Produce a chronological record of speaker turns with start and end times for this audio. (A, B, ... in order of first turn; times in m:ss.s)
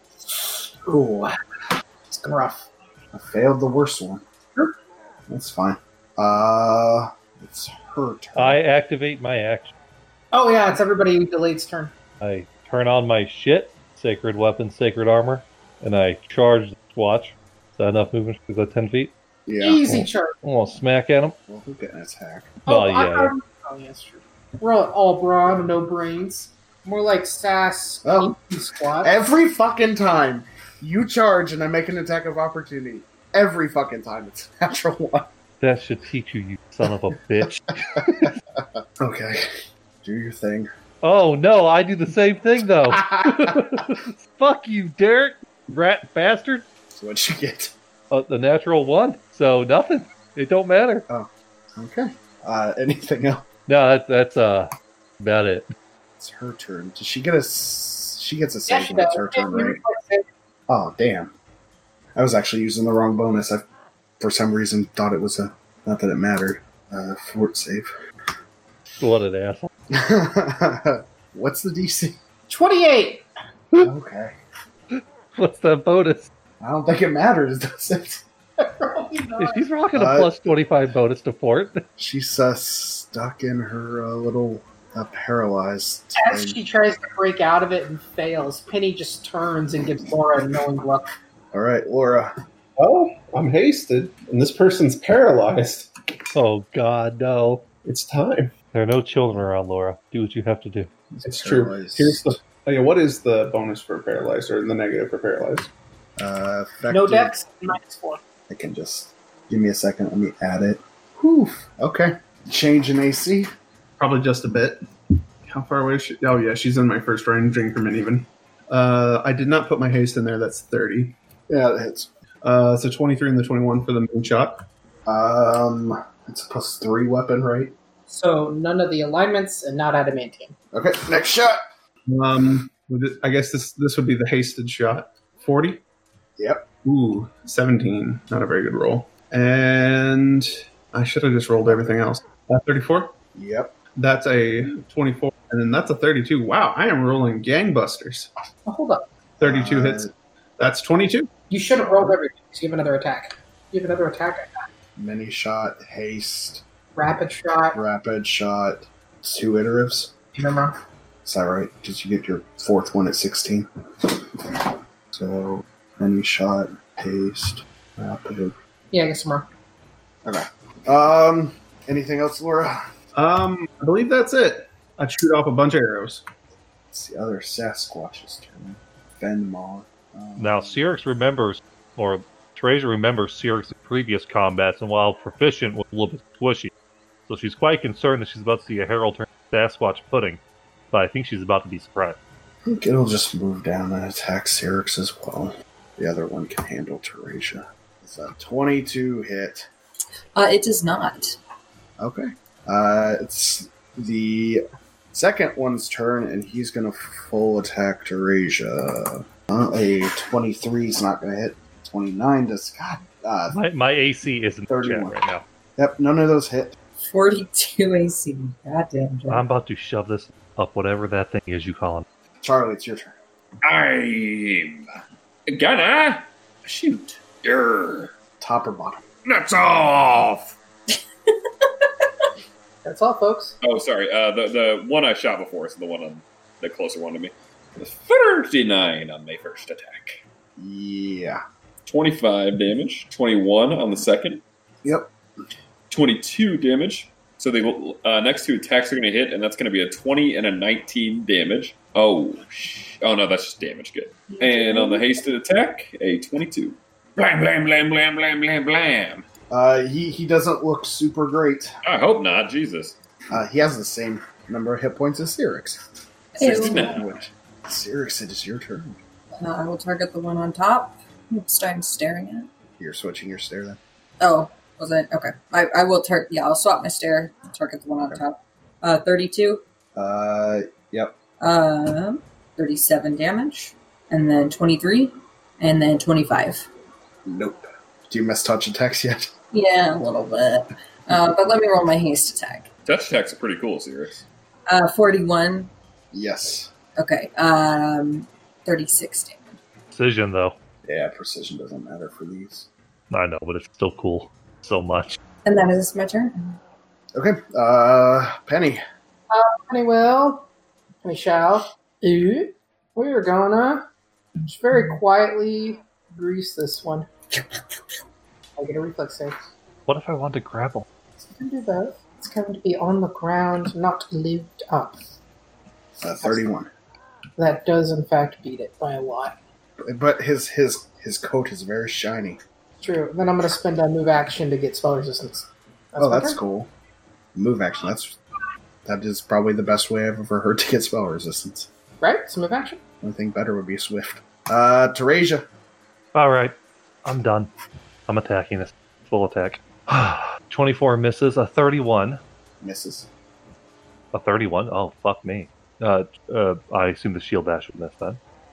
0:00.9-0:01.3 A
0:02.1-0:02.7 B
0:03.1-0:04.2 A
0:05.3-0:08.6 A
0:08.4-0:09.7 C
0:10.3-0:11.9 B
0:12.2-0:19.1 C
0:19.4-0:19.9 A
0:19.6-0:20.4 B
0:19.8-0:21.4 C
0:21.5-0:22.6 A
0:22.6-0:29.1 B
0:22.7-0:23.3 C
0:28.0-0:28.3 A
0:29.0-0:35.3 A
0:35.6-0:38.3 C
0:37.8-0:39.4 A
0:40.0-0:40.7 A
0:41.0-0:46.6 C
0:42.9-0:43.7 A
0:46.9-0:47.7 A
0:48.1-0:51.0 C
0:51.1-0:53.4 A
0:53.7-0:54.7 C
0:55.2-0:55.7 C
0:56.2-0:59.8 A
0:58.7-1:00.2 B
1:00.7-1:01.3 A
1:02.2-1:03.6 A
1:04.2-1:07.9 A
1:09.0-1:09.7 C
1:09.9-1:12.2 A
1:12.5-1:13.2 B
1:13.8-1:14.3 A
1:14.9-1:16.3 C
1:16.6-1:18.2 A
1:18.8-1:19.7 B
1:19.4-1:21.8 C
1:19.9-1:20.3 A
1:22.0-1:26.6 A
1:26.2-1:31.1 B
1:31.5-1:32.3 A
1:32.8-1:35.9 D
1:36.3-1:37.6 C
1:37.8-1:38.5 D
1:38.7-1:40.9 C
1:41.1-1:42.4 A
1:41.2-1:45.7 D
1:46.2-1:47.4 A
1:46.9-1:48.2 B
1:48.5-1:53.5 A
1:54.0-1:54.8 D
1:55.4-2:01.2 D
2:01.5-2:02.1 A
2:02.4-2:04.6 D
2:05.0-2:07.7 A
2:08.1-2:10.6 B
2:10.7-2:11.6 A
2:12.1-2:15.8 D
2:16.4-2:16.7 A
2:16.8-2:23.1 D
2:23.3-2:23.8 A
2:24.0-2:28.3 D
2:28.6-2:29.0 B
2:29.4-2:30.1 A
2:29.4-2:31.3 D
2:31.5-2:34.6 B
2:35.0-2:36.6 A
2:37.0-2:37.8 B
2:37.7-2:40.1 A
2:40.3-2:40.8 B
2:41.2-2:48.6 A
2:48.9-2:49.5 B
2:50.2-2:52.8 A
2:53.1-2:56.2 D
2:56.9-3:00.8 A
3:00.4-3:06.7 C
3:07.3-3:10.4 C
3:10.9-3:12.2 C
3:12.6-3:19.7 A
3:20.4-3:21.4 E
3:22.0-3:33.6 A
3:33.5-3:35.4 C
3:34.7-3:35.2 A
3:35.8-3:36.8 A
3:37.0-3:39.4 E
3:39.3-3:42.0 C
3:42.4-3:43.2 A
3:43.6-3:44.8 F
3:45.5-3:48.1 F
3:48.4-3:49.0 A
3:49.2-3:50.5 F
3:50.9-3:52.0 E
3:52.8-3:53.6 B
3:53.6-4:00.2 F
4:00.6-4:01.4 A
4:01.8-4:04.4 F
4:04.8-4:05.1 A
4:05.9-4:19.3 F
4:14.3-4:15.2 E
4:19.5-4:21.7 A
4:21.8-4:23.0 F
4:23.3-4:25.8 A
4:26.4-4:27.0 E
4:26.4-4:27.1 F
4:26.4-4:29.0 A
4:29.3-4:32.5 E
4:32.8-4:33.8 A
4:34.2-4:39.6 E
4:40.0-4:41.1 A
4:41.4-4:46.7 E
4:47.2-4:49.3 A
4:49.5-4:52.7 E
4:52.8-4:54.2 F
4:54.7-4:55.7 E
4:56.1-4:56.7 A
4:57.0-4:59.6 E
4:59.9-5:00.6 C
5:00.8-5:02.7 A
5:03.1-5:05.2 C
5:05.4-5:06.6 E
5:07.1-5:08.8 A
5:09.3-5:10.5 B
5:11.0-5:13.8 B
5:14.4-5:17.1 B
5:18.6-5:19.4 B
5:19.9-5:20.8 C
5:21.2-5:25.0 B
5:26.0-5:26.7 A
5:27.4-5:29.4 B
5:29.8-5:32.4 A
5:32.8-5:36.4 B
5:36.0-5:36.7 A
5:37.3-5:38.2 A
5:38.8-5:41.7 A
5:42.0-5:42.8 B
5:43.0-5:45.5 A
5:46.1-5:47.5 C
5:48.1-5:52.2 C
5:52.6-5:53.1 A
5:54.1-5:58.2 C